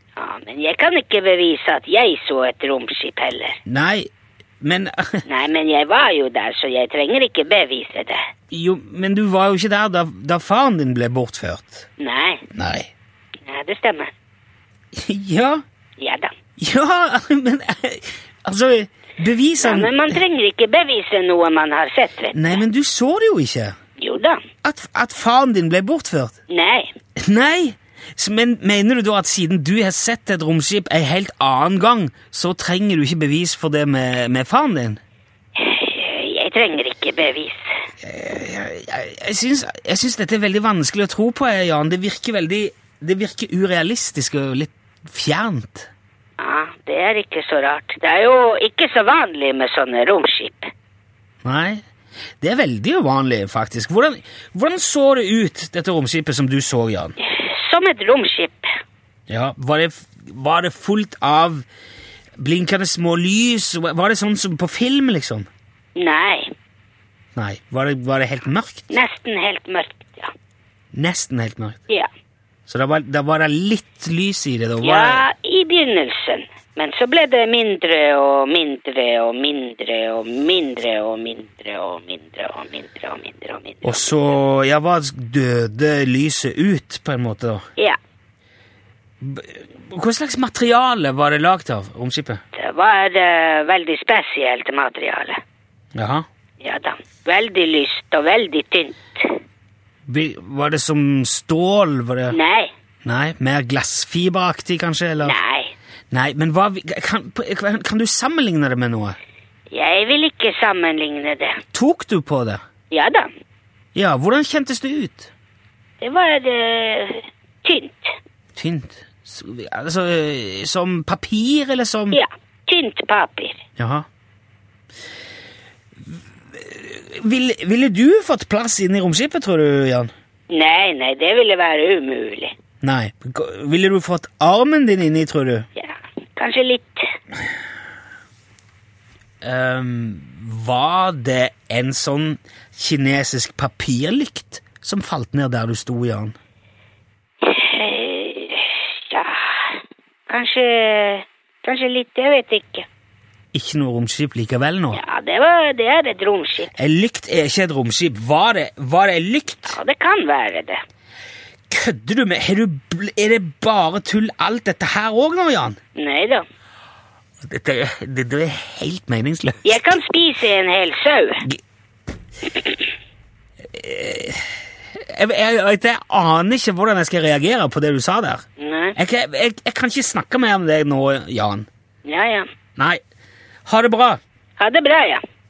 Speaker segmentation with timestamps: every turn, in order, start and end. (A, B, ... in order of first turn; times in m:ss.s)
0:00.2-0:03.6 A
0:03.6-0:04.1 B
0:04.6-0:05.2 B
0:05.3-0:08.2 A
0:08.5-0:11.9 B
0:12.0-0:12.5 A
0:12.5-0:12.9 B
0:13.4-0:14.1 A
0:14.9-0:15.6 B
0:16.0-0:16.3 A
0:16.6-0:20.2 B
0:19.6-0:22.6 A
0:22.3-0:23.8 B
0:24.0-0:24.4 A
0:24.6-0:26.4 B
0:26.5-0:26.9 A
0:27.2-0:35.0 B
0:35.6-0:37.6 A
0:38.0-0:45.9 B
0:46.4-0:50.7 A
0:51.4-0:51.8 B
0:52.4-0:57.2 B
0:57.2-0:58.7 A
0:59.3-1:01.6 B
1:02.4-1:05.5 B
1:06.0-1:06.5 A
1:07.4-1:09.0 B
1:08.9-1:10.3 A
1:10.9-1:11.8 B
1:12.7-1:15.3 B
1:14.8-1:24.2 A
1:23.8-1:27.6 B
1:29.2-1:32.4 B
1:32.5-1:35.4 A
1:36.0-1:36.3 B
1:36.6-1:39.4 A
1:40.1-1:42.4 B
1:42.3-1:42.7 A
1:43.0-1:45.4 B
1:45.2-1:45.7 A
1:46.1-1:49.2 B
1:49.7-1:51.6 A
1:51.7-1:52.6 B
1:52.9-1:53.3 A
1:54.0-1:55.3 B
1:56.0-1:58.1 A
1:58.6-2:02.2 B
2:02.1-2:03.6 A
2:03.8-2:04.1 B
2:06.5-2:10.1 B
2:10.5-2:12.5 A
2:12.8-2:15.7 B
2:15.8-2:17.0 A
2:19.4-2:26.4 B
2:27.4-2:32.9 A
2:33.5-2:35.0 B
2:34.9-2:36.7 A
2:36.8-2:39.8 B
2:39.7-2:40.8 A
2:41.7-2:45.8 B
2:46.0-2:46.4 A
2:47.4-2:49.9 B
2:49.6-2:51.5 A
2:53.7-2:58.4 B
2:58.6-2:59.0 A
2:59.0-3:01.7 B
3:02.0-3:02.5 A
3:03.7-3:04.2 B
3:04.6-3:05.2 A